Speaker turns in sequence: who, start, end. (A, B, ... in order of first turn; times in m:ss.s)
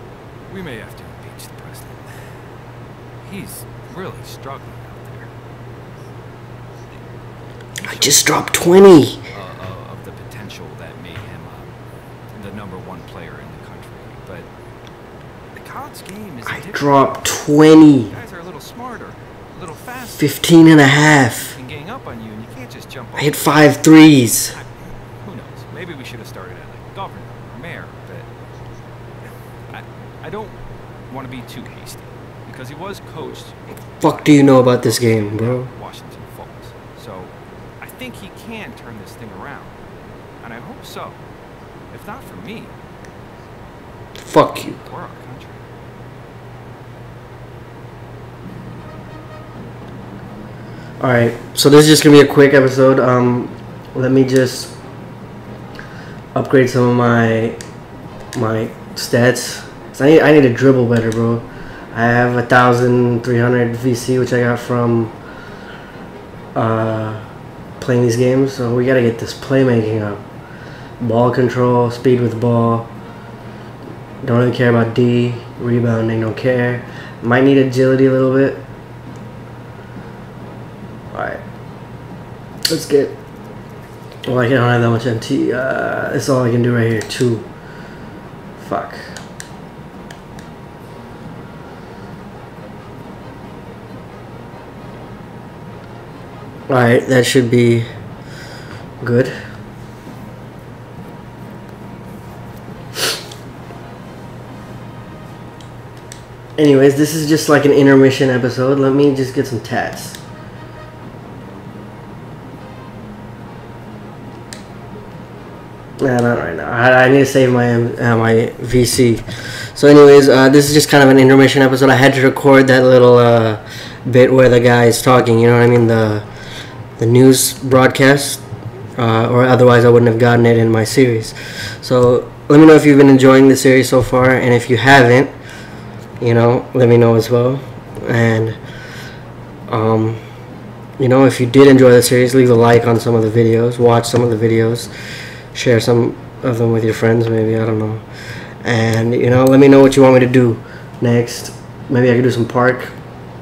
0:00.5-0:02.4 A
0:03.2-0:05.3 A
0:07.8-0:08.3 A
0:07.8-0:09.3 B
0:09.3-0:11.7 A
0:12.3-0:14.5 A
0:15.6-0:17.0 A
0:16.5-0:18.1 B
0:18.1-0:20.3 A
0:20.2-0:21.6 B
0:21.4-0:23.9 A
0:23.2-0:24.6 B
0:25.2-0:28.3 A
0:29.7-0:39.8 A
0:34.0-0:35.7 B
0:40.4-0:41.2 A
0:41.9-0:42.7 A
0:44.2-0:44.8 B
0:44.7-0:45.6 A
0:51.0-0:54.7 B
0:56.3-0:57.6 B
0:58.3-1:05.1 B
1:06.6-1:07.2 B
1:07.8-1:10.2 B
1:11.0-1:12.9 B
1:14.2-1:18.6 B
1:21.1-1:21.4 B
1:22.7-1:23.2 B
1:24.2-1:27.4 B
1:28.6-1:29.2 B
1:36.7-1:37.9 B
1:39.0-1:39.4 B
1:46.6-1:50.2 B
1:56.0-2:06.3 B
2:07.0-2:08.4 B
2:09.0-2:15.3 B
2:16.2-2:18.6 B
2:19.7-2:20.2 B
2:21.0-2:24.9 B
2:25.5-2:28.0 B
2:28.6-2:32.9 B